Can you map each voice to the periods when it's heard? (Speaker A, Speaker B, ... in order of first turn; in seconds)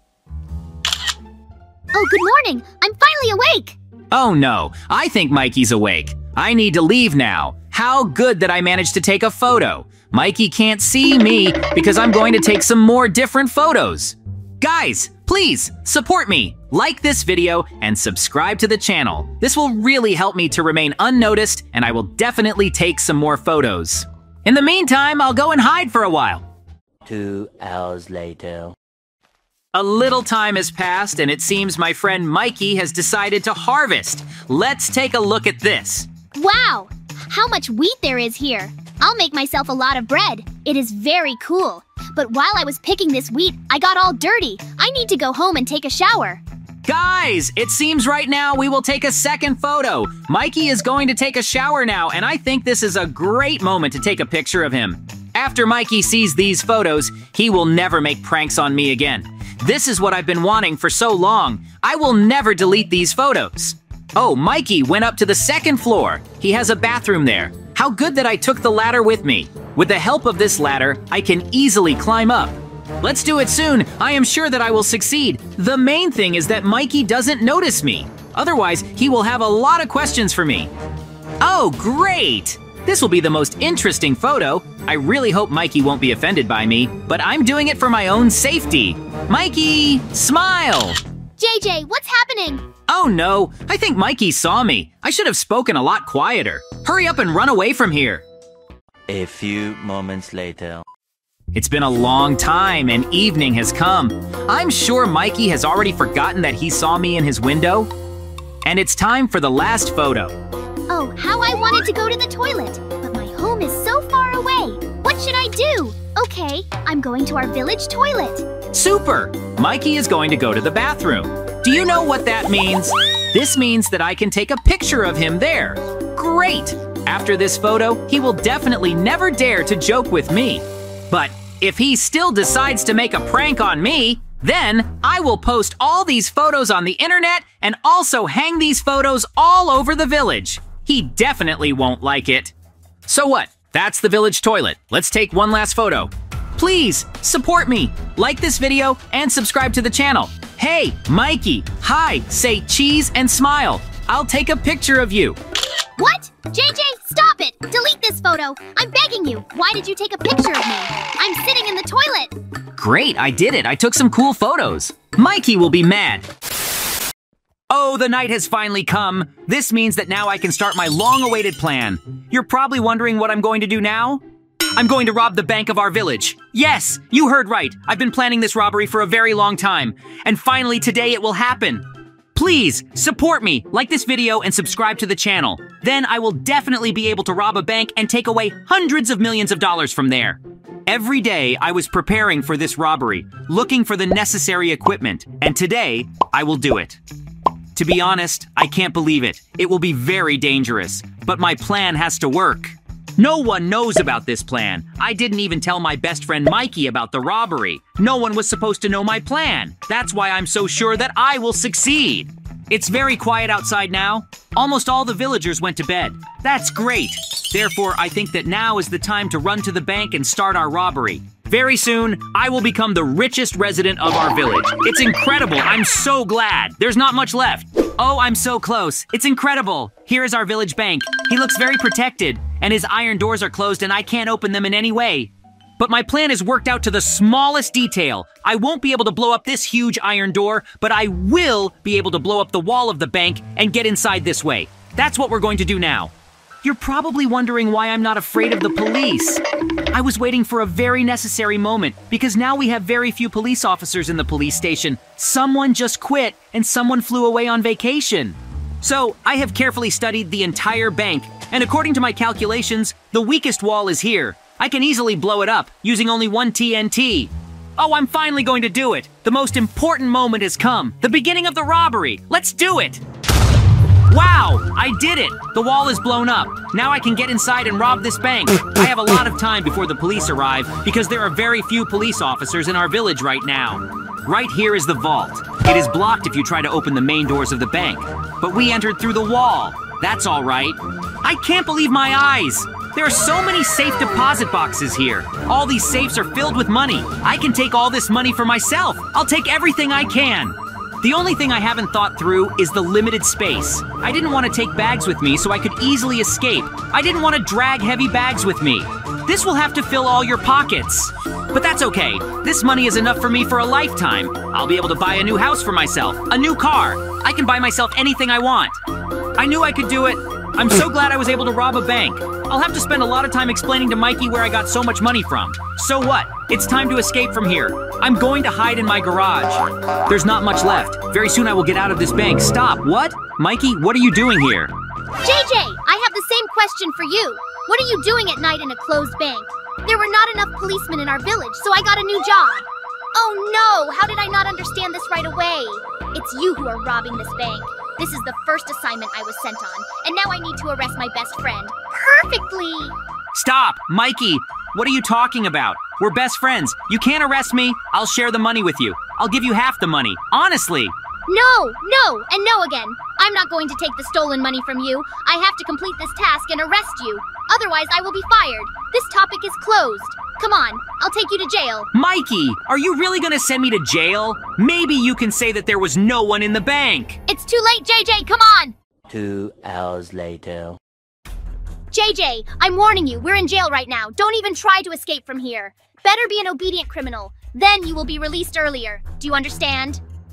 Speaker A: 1.9-3.8, 36.3-46.4, 91.4-92.6, 110.9-118.5, 156.0-162.3, 335.2-352.9, 361.3-371.9, 377.3-378.7, 381.9-390.0
Speaker B: 4.1-26.4, 29.7-36.1, 46.9-80.7, 81.4-91.0, 92.9-98.2, 101.5-107.9, 108.6-110.3, 118.7-142.5, 143.1-155.4, 162.8-166.2, 167.7-174.2, 174.7-197.0, 197.7-246.1, 246.6-273.0, 274.1-318.8, 319.4-334.7, 353.3-360.9, 371.9-377.2
Speaker C: 27.0-28.7, 99.1-100.8, 379.1-380.8